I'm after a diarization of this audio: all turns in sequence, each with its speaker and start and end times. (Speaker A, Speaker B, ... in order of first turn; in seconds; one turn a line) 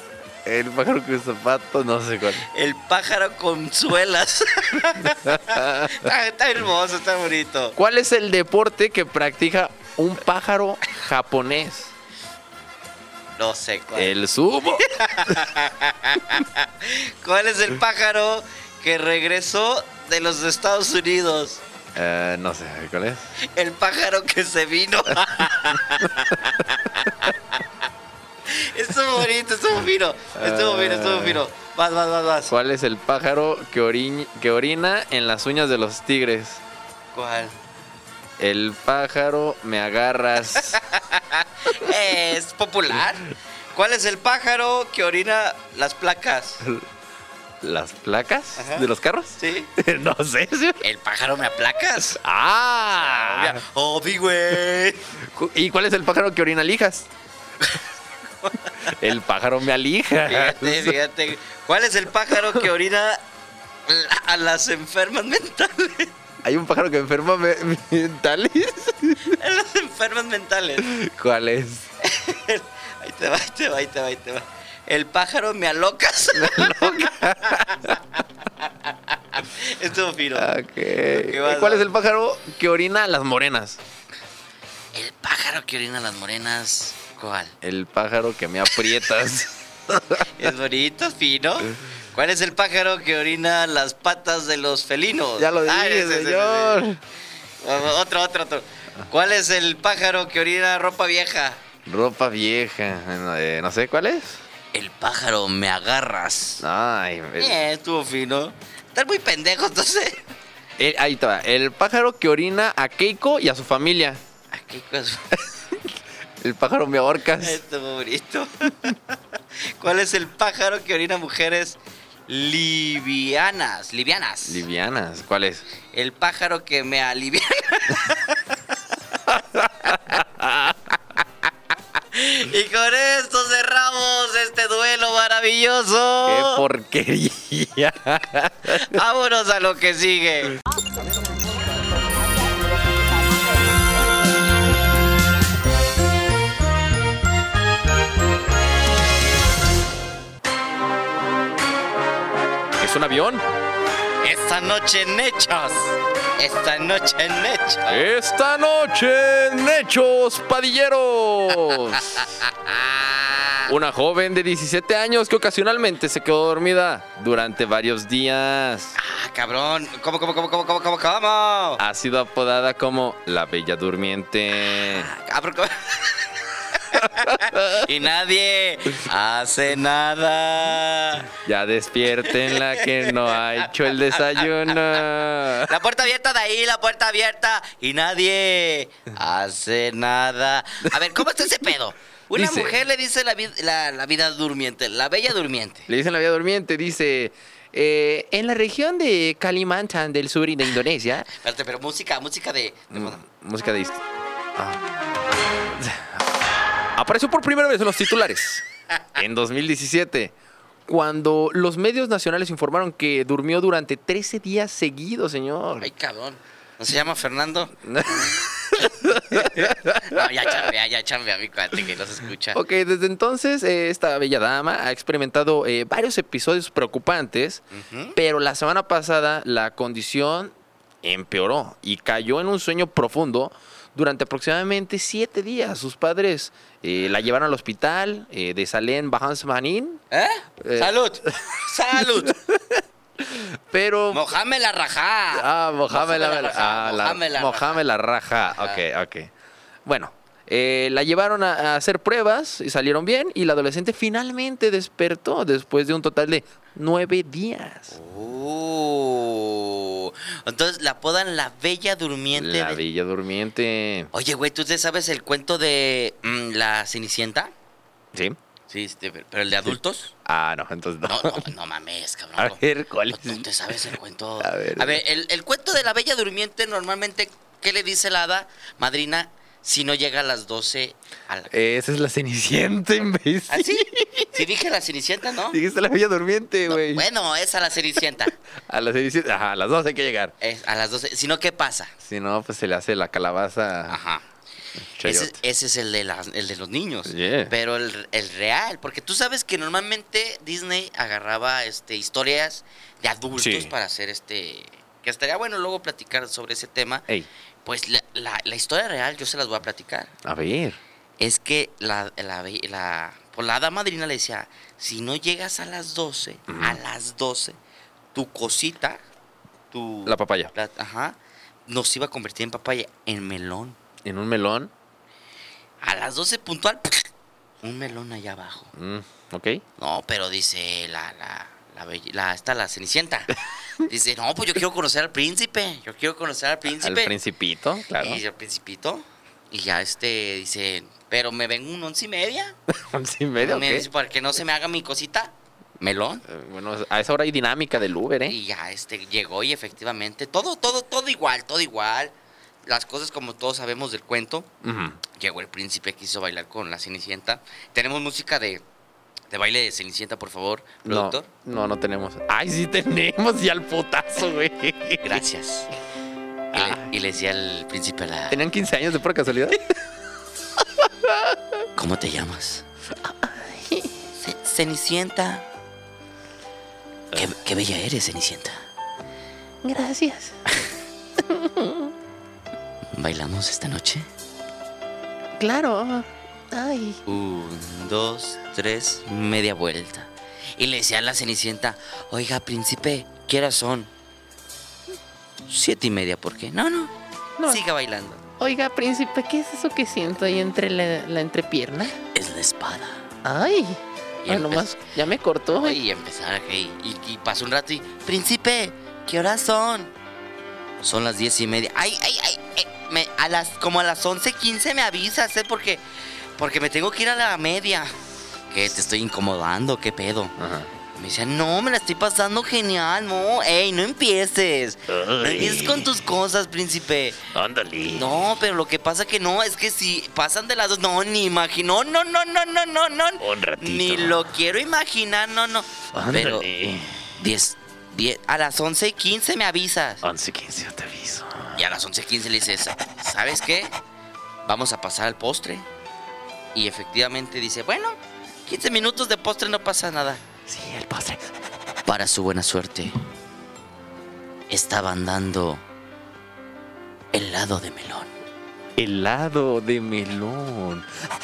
Speaker A: 0.4-2.5
Speaker B: 2.5-7.8
Speaker A: 5.0-6.1
Speaker A: 7.8-11.9
Speaker B: 13.4-14.2
Speaker A: 13.9-15.3
Speaker B: 14.8-21.6
Speaker A: 21.9-23.3
Speaker B: 23.4-27.6
Speaker B: 28.4-32.5
Speaker A: 30.4-31.4
Speaker A: 32.5-36.6
Speaker B: 37.1-37.5
Speaker A: 38.4-40.8
Speaker B: 40.5-46.6
Speaker A: 47.6-50.8
Speaker B: 48.6-49.7
Speaker B: 50.8-52.2
Speaker A: 52.1-53.6
Speaker B: 52.9-55.0
Speaker A: 55.2-57.1
Speaker B: 58.4-58.9
Speaker A: 58.8-61.0
Speaker B: 60.2-63.2
Speaker B: 63.9-66.1
Speaker A: 66.4-69.4
Speaker B: 69.3-70.9
Speaker A: 70.8-71.9
Speaker B: 72.0-81.9
Speaker A: 76.3-77.9
Speaker A: 80.3-83.8
Speaker B: 84.9-87.5
Speaker A: 87.6-90.5
Speaker B: 90.2-96.8
Speaker A: 95.4-97.0
Speaker B: 97.6-101.6
Speaker A: 101.8-104.4
Speaker B: 104.7-106.7
Speaker A: 106.6-107.6
Speaker B: 107.4-110.2
Speaker A: 110.8-114.2
Speaker B: 114.5-115.3
Speaker A: 115.3-115.9
Speaker A: 116.4-117.6
Speaker B: 117.4-124.6
Speaker A: 124.5-125.6
Speaker B: 125.9-128.6
Speaker A: 129.2-131.0
Speaker B: 132.0-136.6
Speaker A: 136.2-139.0
Speaker B: 138.7-140.5
Speaker A: 152.8-153.4
Speaker B: 154.2-158.0
Speaker A: 157.9-162.3
Speaker B: 161.9-163.7
Speaker A: 163.7-168.9
Speaker B: 168.9-171.8
Speaker A: 171.8-175.1
Speaker B: 174.7-181.3
Speaker A: 176.9-177.9
Speaker A: 181.3-185.8
Speaker B: 182.2-195.9
Speaker A: 192.3-192.8
Speaker A: 195.9-201.3
Speaker B: 201.3-203.2
Speaker A: 202.9-204.0
Speaker A: 204.6-204.8
Speaker A: 205.7-206.2
Speaker A: 206.9-208.6
Speaker A: 209.1-210.3
Speaker A: 210.9-215.9
Speaker B: 215.8-222.6
Speaker A: 217.8-220.7
Speaker A: 222.5-227.6
Speaker B: 227.7-228.2
Speaker A: 228.1-240.0
Speaker B: 240.1-242.4
Speaker A: 240.6-244.2
Speaker B: 244.1-247.8
Speaker A: 245.3-249.3
Speaker B: 248.6-248.8
Speaker A: 249.8-257.9
Speaker B: 257.9-262.8
Speaker A: 262.3-264.1
Speaker B: 264.1-267.5
Speaker B: 268.7-270.1
Speaker A: 269.6-271.5
Speaker B: 271.0-281.5
Speaker A: 272.4-273.4
Speaker A: 274.4-275.0
Speaker A: 281.5-284.4
Speaker B: 283.5-285.6
Speaker A: 285.5-287.1
Speaker B: 286.7-288.4
Speaker A: 288.7-290.3
Speaker B: 290.4-291.9
Speaker A: 292.0-294.0
Speaker B: 293.9-294.2
Speaker A: 294.8-295.4
Speaker B: 295.0-307.1
Speaker A: 297.1-297.5
Speaker A: 303.4-303.7
Speaker B: 307.6-310.1
Speaker A: 310.2-310.8
Speaker B: 311.2-317.6
Speaker A: 316.5-316.8
Speaker B: 318.1-319.0
Speaker B: 319.7-323.8
Speaker A: 320.1-320.5
Speaker A: 324.0-324.7
Speaker B: 325.8-327.1
Speaker B: 327.6-328.7
Speaker A: 328.7-329.6
Speaker B: 329.8-337.1
Speaker A: 336.8-338.2
Speaker B: 338.0-342.6
Speaker A: 342.7-343.9
Speaker B: 343.4-346.2
Speaker A: 346.2-348.4
Speaker B: 348.2-352.1
Speaker B: 352.6-354.5
Speaker A: 354.6-355.0
Speaker B: 355.1-358.6
Speaker B: 359.3-361.3
Speaker A: 360.8-365.2
Speaker B: 365.0-365.7
Speaker A: 366.5-366.9
Speaker B: 366.5-368.4
Speaker A: 368.3-369.6
Speaker A: 370.6-371.4
Speaker B: 371.8-372.6
Speaker A: 372.9-373.9
Speaker B: 374.2-375.4
Speaker B: 377.1-378.6
Speaker A: 379.6-380.4
Speaker A: 381.2-381.9
Speaker B: 382.9-384.1
Speaker A: 385.4-387.0
Speaker B: 387.1-393.9
Speaker B: 395.5-396.9
Speaker B: 397.4-398.2
Speaker A: 398.4-402.0
Speaker B: 402.1-403.1
Speaker A: 403.2-405.8
Speaker B: 404.2-404.7
Speaker B: 405.5-409.9
Speaker B: 410.8-415.8
Speaker B: 416.4-417.9
Speaker B: 418.5-420.4
Speaker A: 420.4-420.7
Speaker B: 420.9-427.2
Speaker A: 424.9-426.0
Speaker A: 427.3-428.3
Speaker B: 427.9-436.5
Speaker A: 433.2-434.3
Speaker A: 435.9-437.2
Speaker B: 437.2-440.0
Speaker A: 440.0-441.6
Speaker B: 441.6-443.7
Speaker B: 444.4-445.6
Speaker B: 446.5-450.2
Speaker A: 450.4-451.3
Speaker B: 451.9-452.9
Speaker B: 454.5-455.6
Speaker B: 457.1-458.1
Speaker A: 458.8-460.9